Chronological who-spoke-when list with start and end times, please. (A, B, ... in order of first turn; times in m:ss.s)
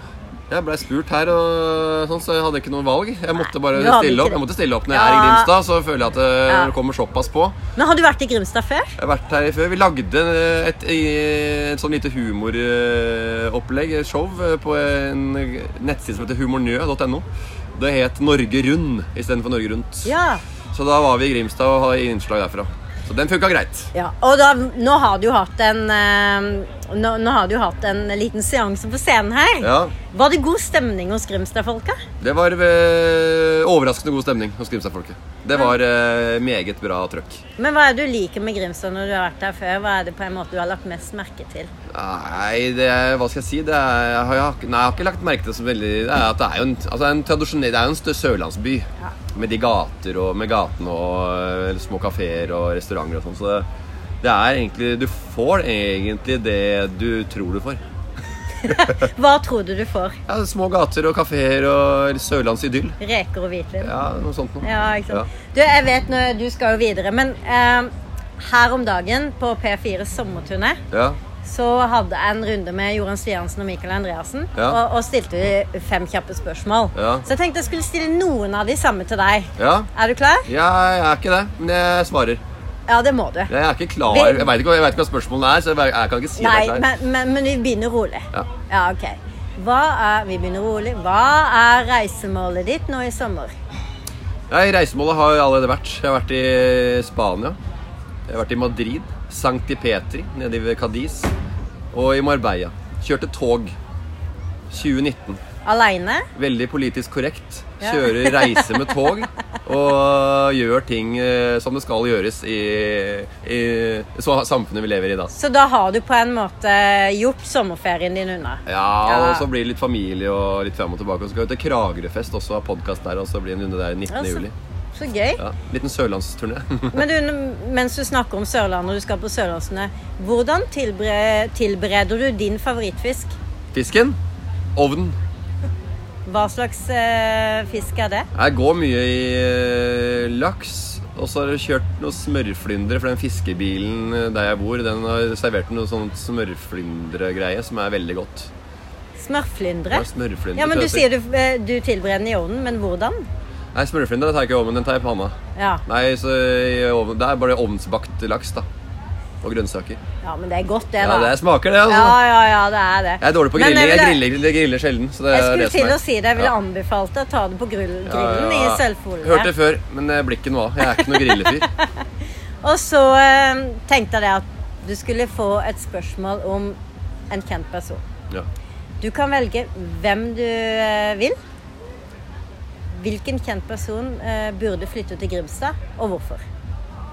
0:00.5-0:07.5 A
0:03.4-0:05.5 B
0:07.8-0:09.0 B
0:09.0-0:20.1 A
0:20.0-0:20.4 B
0:20.7-0:23.9 A
0:23.9-0:32.0 B
0:29.6-0:29.9 A
0:32.2-0:37.4 A
0:37.6-0:41.7 B
0:41.9-0:53.6 A
0:54.2-0:57.8 A
0:58.6-1:00.2 B
0:58.6-0:59.0 A
1:00.3-1:03.0 A
1:03.0-1:03.9 B
1:03.8-1:05.3 A
1:04.6-1:10.8 B
1:10.9-1:11.2 A
1:11.4-1:20.5 B
1:16.9-1:17.3 A
1:19.6-1:19.9 A
1:20.4-1:22.4 A
1:22.9-1:23.5 B
1:23.5-1:26.8 A
1:24.0-1:24.5 B
1:26.4-1:33.5 B
1:34.5-1:37.6 A
1:38.3-1:41.3 A
1:41.9-1:43.7 A
1:44.7-1:45.4 A
1:45.6-1:46.3 B
1:46.3-1:55.3 A
1:47.8-1:48.8 B
1:55.3-1:59.4 B
1:58.6-2:04.5 A
2:04.1-2:05.4 B
2:05.4-2:07.0 A
2:06.9-2:13.4 B
2:13.7-2:14.2 A
2:14.8-2:15.2 A
2:16.2-2:18.3 B
2:18.3-2:28.5 A
2:29.2-2:30.0 B
2:29.9-2:31.0 A
2:30.6-2:33.2 B
2:33.7-2:35.3 A
2:35.6-2:35.8 B
2:35.8-2:38.6 A
2:39.4-2:40.0 A
2:40.2-2:41.3 B
2:41.0-2:42.2 A
2:41.9-2:44.2 B
2:43.2-2:46.5 A
2:45.3-2:49.5 B
2:48.0-2:51.7 A
2:51.0-2:51.6 B
2:52.6-2:56.8 B
2:57.3-2:58.0 B
2:59.0-3:01.4 B
3:02.9-3:06.4 B